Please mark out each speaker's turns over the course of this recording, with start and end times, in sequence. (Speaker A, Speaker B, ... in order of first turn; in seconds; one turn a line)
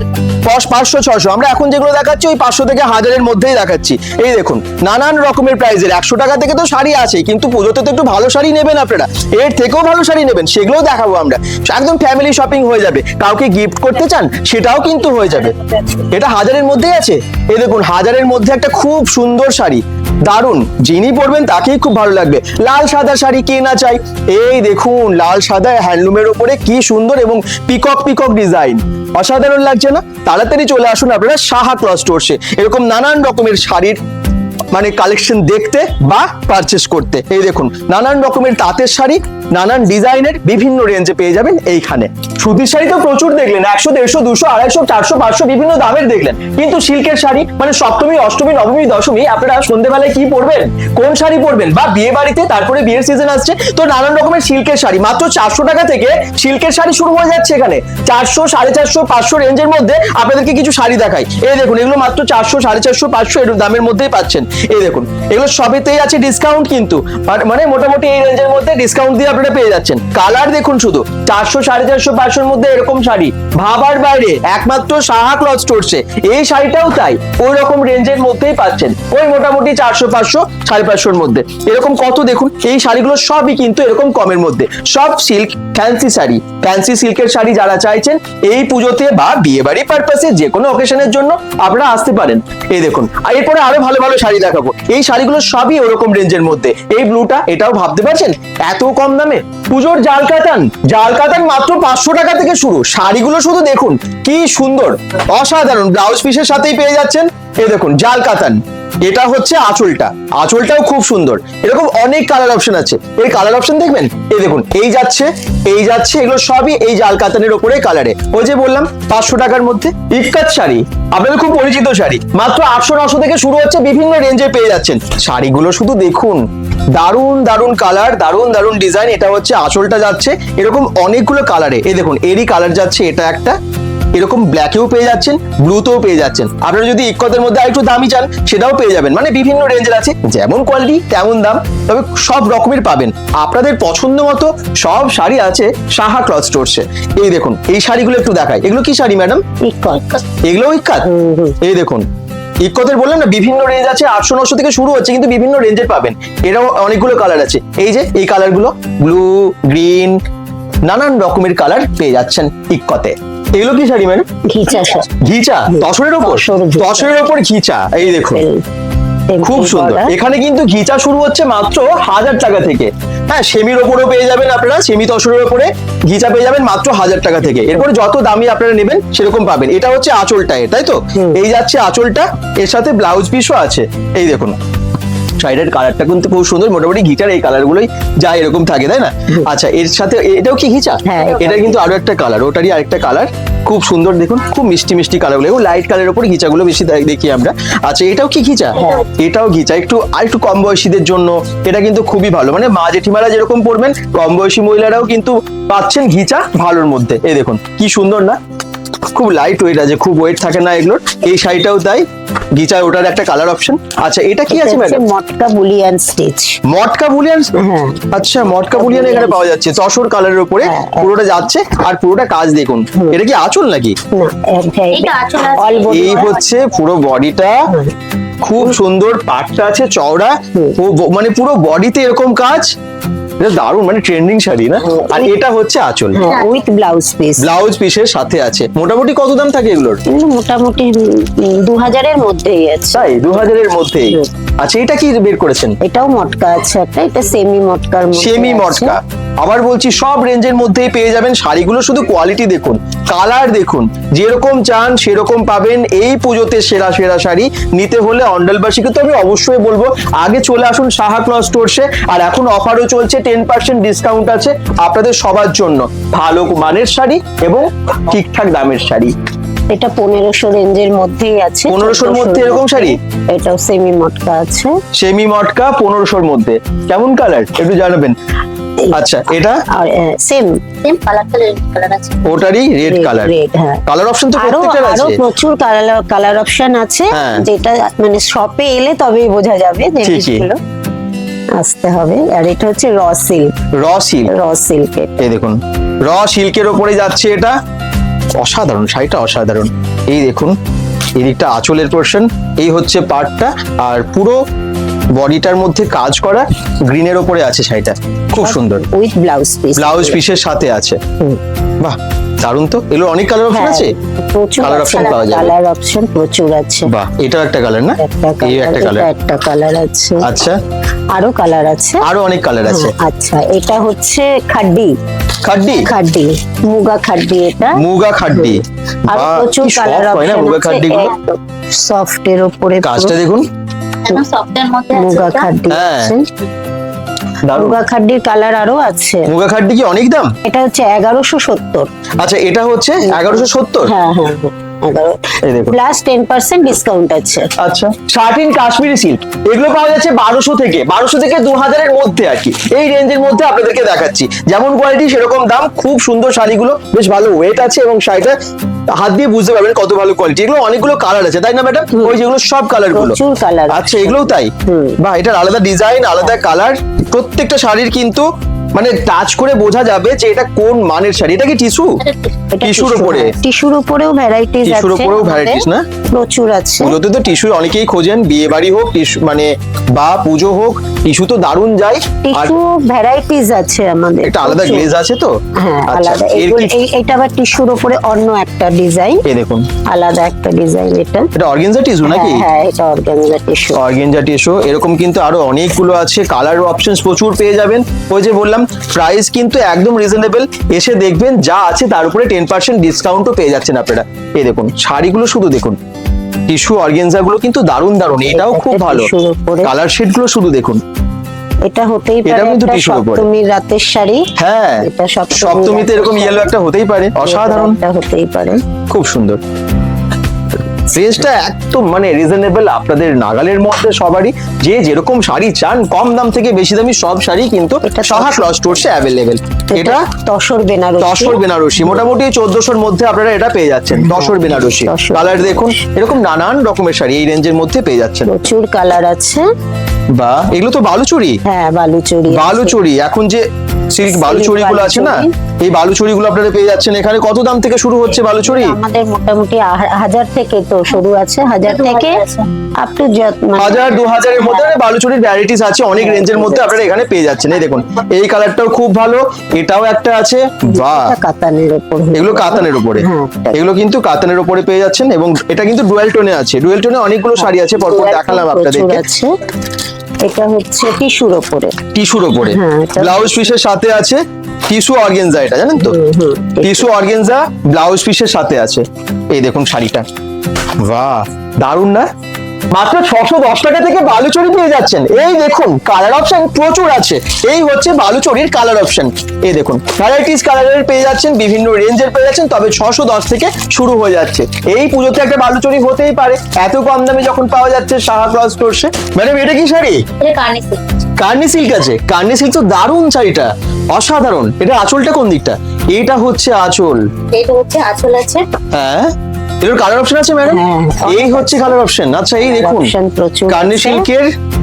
Speaker A: 0.4-34.0
Speaker A: 34.7-133.6
Speaker A: 134.1-149.4
Speaker B: 149.6-150.2
Speaker A: 150.4-151.1
Speaker B: 151.0-151.6
Speaker A: 151.6-152.0
Speaker A: 152.6-160.2
Speaker A: 160.8-164.2
Speaker B: 164.4-165.1
Speaker A: 165.2-168.4
Speaker B: 165.7-167.1
Speaker B: 168.1-168.6
Speaker B: 169.3-170.1
Speaker A: 169.4-184.6
Speaker A: 185.4-208.4
Speaker B: 191.0-191.8
Speaker B: 198.8-199.0
Speaker A: 209.1-215.0
Speaker B: 214.5-216.6
Speaker A: 216.7-217.5
Speaker B: 217.6-219.4
Speaker A: 218.1-223.9
Speaker B: 220.6-221.4
Speaker B: 224.1-226.3
Speaker C: 224.9-226.7
Speaker A: 225.9-227.7
Speaker A: 228.4-232.7
Speaker A: 233.4-236.2
Speaker B: 234.8-235.3
Speaker B: 236.1-237.5
Speaker C: 236.2-236.5
Speaker A: 237.4-240.0
Speaker B: 240.1-243.3
Speaker A: 242.9-245.8
Speaker B: 245.8-248.9
Speaker A: 248.2-269.1
Speaker B: 269.7-274.8
Speaker A: 271.7-273.0
Speaker A: 274.9-278.1
Speaker A: 278.9-279.6
Speaker B: 279.7-280.6
Speaker C: 280.8-282.2
Speaker A: 282.2-283.3
Speaker B: 282.8-283.8
Speaker A: 283.9-285.2
Speaker B: 284.4-290.6
Speaker A: 287.1-287.4
Speaker A: 290.0-290.5
Speaker B: 291.6-293.5
Speaker A: 293.7-294.3
Speaker B: 294.3-295.2
Speaker A: 295.2-297.6
Speaker A: 298.4-300.6
Speaker A: 301.1-304.4
Speaker A: 305.1-308.9
Speaker B: 308.4-310.2
Speaker A: 309.8-311.0
Speaker A: 311.8-313.9
Speaker B: 313.5-316.9
Speaker A: 314.6-315.5
Speaker C: 314.9-315.4
Speaker A: 316.9-319.1
Speaker B: 318.0-320.3
Speaker A: 320.2-320.6
Speaker B: 321.1-322.1
Speaker A: 322.0-322.9
Speaker B: 322.7-324.9
Speaker A: 325.4-325.9
Speaker B: 325.7-333.2
Speaker A: 327.7-331.1
Speaker A: 332.8-333.4
Speaker C: 334.0-335.5
Speaker B: 334.9-336.3
Speaker A: 335.7-336.1
Speaker A: 337.4-337.8
Speaker B: 337.5-339.3
Speaker A: 339.2-340.3
Speaker B: 340.4-341.9
Speaker A: 342.2-343.9
Speaker B: 343.0-347.5
Speaker A: 345.4-345.8
Speaker A: 347.6-358.4
Speaker A: 358.9-363.1
Speaker B: 362.9-365.0
Speaker A: 363.7-372.0
Speaker C: 372.0-372.3
Speaker B: 372.5-377.0
Speaker A: 372.6-373.3
Speaker A: 374.6-375.8
Speaker A: 376.8-382.6
Speaker B: 382.2-384.9
Speaker A: 384.2-385.3
Speaker B: 385.6-389.2
Speaker A: 385.9-386.7
Speaker A: 389.2-389.6
Speaker B: 389.9-391.3
Speaker A: 391.3-392.4
Speaker B: 392.0-393.8
Speaker A: 393.7-405.8
Speaker A: 406.5-409.1
Speaker B: 408.2-409.7
Speaker A: 409.6-410.8
Speaker B: 411.6-414.3
Speaker A: 412.2-413.2
Speaker A: 414.4-417.8
Speaker B: 414.8-416.5
Speaker B: 417.2-418.6
Speaker A: 418.9-419.4
Speaker A: 420.9-430.1
Speaker B: 427.8-428.8
Speaker B: 429.7-431.4
Speaker A: 431.0-438.3
Speaker B: 433.9-435.7
Speaker B: 438.2-439.5
Speaker A: 440.1-441.4
Speaker B: 441.4-442.8
Speaker A: 442.3-448.8
Speaker B: 444.1-445.3
Speaker B: 448.4-452.2
Speaker C: 451.6-452.5
Speaker B: 452.8-454.7
Speaker A: 453.6-461.1
Speaker B: 455.9-456.8
Speaker B: 460.7-463.6
Speaker A: 462.1-469.0
Speaker B: 467.3-469.3
Speaker B: 470.2-471.8
Speaker A: 471.9-476.0
Speaker B: 472.4-473.6
Speaker B: 475.8-476.9
Speaker A: 476.6-480.1
Speaker A: 480.8-482.1
Speaker A: 482.7-500.0
Speaker C: 500.2-500.8
Speaker A: 501.2-507.1
Speaker C: 507.3-508.4
Speaker A: 508.7-512.9
Speaker B: 510.5-511.8
Speaker B: 512.4-514.0
Speaker A: 513.5-514.3